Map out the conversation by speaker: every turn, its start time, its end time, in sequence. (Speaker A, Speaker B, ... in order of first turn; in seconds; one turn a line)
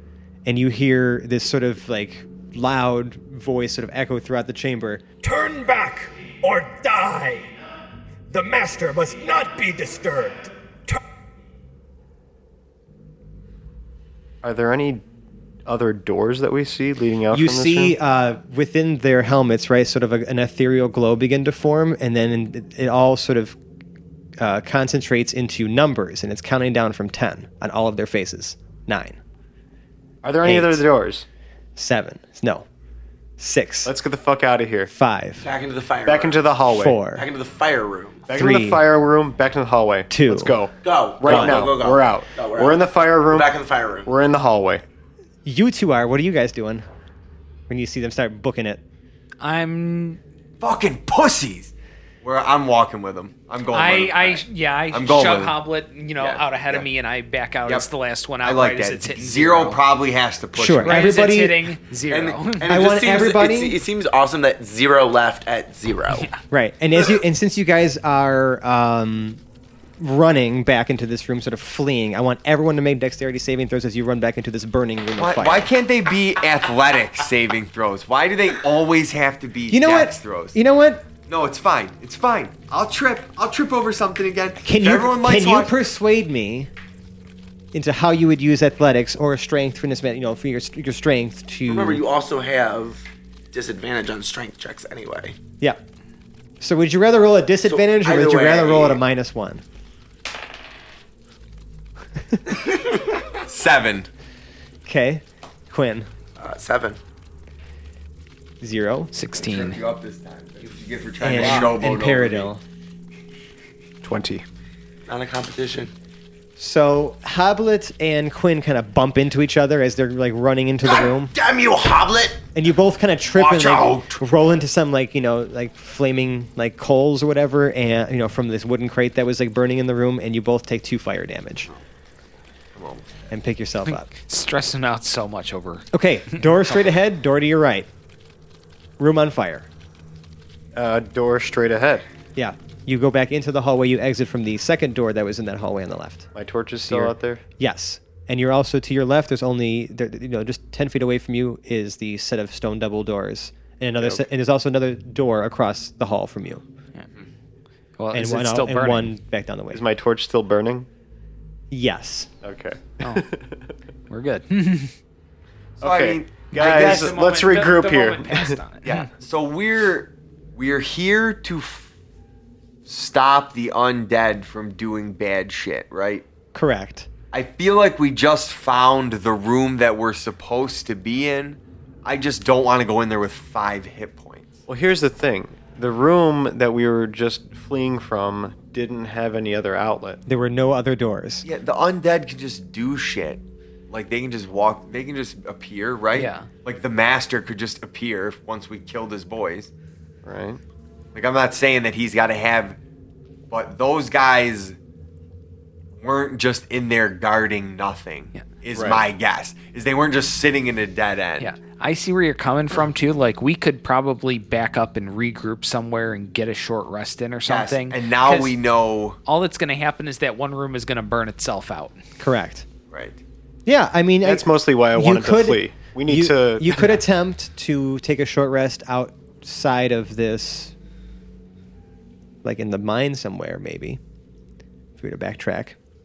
Speaker A: 0.5-5.0
Speaker B: 5.2-7.5
Speaker B: 8.3-11.0
Speaker C: 14.4-15.0
Speaker C: 15.7-18.0
Speaker A: 17.3-23.6
Speaker A: 24.4-29.2
Speaker C: 30.2-31.2
Speaker A: 30.4-30.8
Speaker A: 31.8-32.7
Speaker A: 33.4-33.9
Speaker C: 33.9-34.9
Speaker A: 34.9-35.5
Speaker D: 35.4-36.5
Speaker C: 36.1-37.0
Speaker A: 36.7-37.3
Speaker D: 37.1-38.3
Speaker C: 38.3-43.5
Speaker A: 38.4-38.9
Speaker A: 40.1-40.5
Speaker D: 40.8-44.1
Speaker A: 41.2-41.7
Speaker C: 44.1-44.8
Speaker A: 45.5-46.9
Speaker A: 47.7-48.8
Speaker E: 49.4-50.2
Speaker F: 50.6-51.7
Speaker F: 52.2-55.6
Speaker E: 53.7-59.8
Speaker F: 56.2-56.9
Speaker F: 58.4-61.0
Speaker A: 60.5-61.7
Speaker E: 60.8-62.9
Speaker D: 62.1-66.3
Speaker A: 62.7-63.8
Speaker A: 66.5-69.4
Speaker A: 70.0-75.7
Speaker F: 75.2-80.6
Speaker A: 79.7-81.0
Speaker F: 81.3-85.7
Speaker A: 84.6-86.7
Speaker A: 87.7-92.0
Speaker D: 91.7-95.4
Speaker A: 96.6-99.6
Speaker D: 97.7-99.0
Speaker D: 102.5-102.9
Speaker F: 103.5-104.1
Speaker A: 104.8-106.1
Speaker D: 106.4-107.0
Speaker A: 108.6-109.1
Speaker E: 109.1-109.8
Speaker F: 109.4-112.5
Speaker A: 111.2-112.6
Speaker D: 111.3-111.7
Speaker C: 114.0-114.4
Speaker D: 115.1-115.9
Speaker A: 116.6-121.3
Speaker D: 120.8-122.5
Speaker A: 122.5-131.7
Speaker F: 123.4-124.2
Speaker F: 132.8-133.2
Speaker A: 133.3-134.1
Speaker E: 133.9-136.4
Speaker A: 135.9-137.9
Speaker A: 139.0-139.7
Speaker C: 140.8-142.1
Speaker A: 142.3-146.3
Speaker C: 146.3-147.4
Speaker A: 146.9-156.6
Speaker E: 158.0-159.2
Speaker A: 158.1-159.8
Speaker C: 159.7-160.9
Speaker A: 161.7-162.3
Speaker C: 162.4-163.7
Speaker E: 164.1-164.9
Speaker F: 165.8-167.2
Speaker C: 165.8-168.6
Speaker E: 166.5-169.1
Speaker F: 168.8-171.9
Speaker F: 172.8-176.3
Speaker A: 176.5-177.1
Speaker F: 177.3-184.6
Speaker C: 184.7-190.2
Speaker A: 190.3-191.4
Speaker F: 191.4-199.7
Speaker E: 196.1-196.5
Speaker C: 200.2-200.6
Speaker F: 201.1-202.8
Speaker F: 203.5-204.8
Speaker F: 206.0-211.5
Speaker C: 208.7-209.1
Speaker E: 211.4-218.6
Speaker F: 217.5-219.2
Speaker E: 219.3-222.0
Speaker A: 222.2-222.7
Speaker F: 222.9-223.2
Speaker A: 223.7-230.7
Speaker C: 224.2-226.8
Speaker E: 226.7-227.0
Speaker A: 232.4-234.0
Speaker A: 235.0-235.8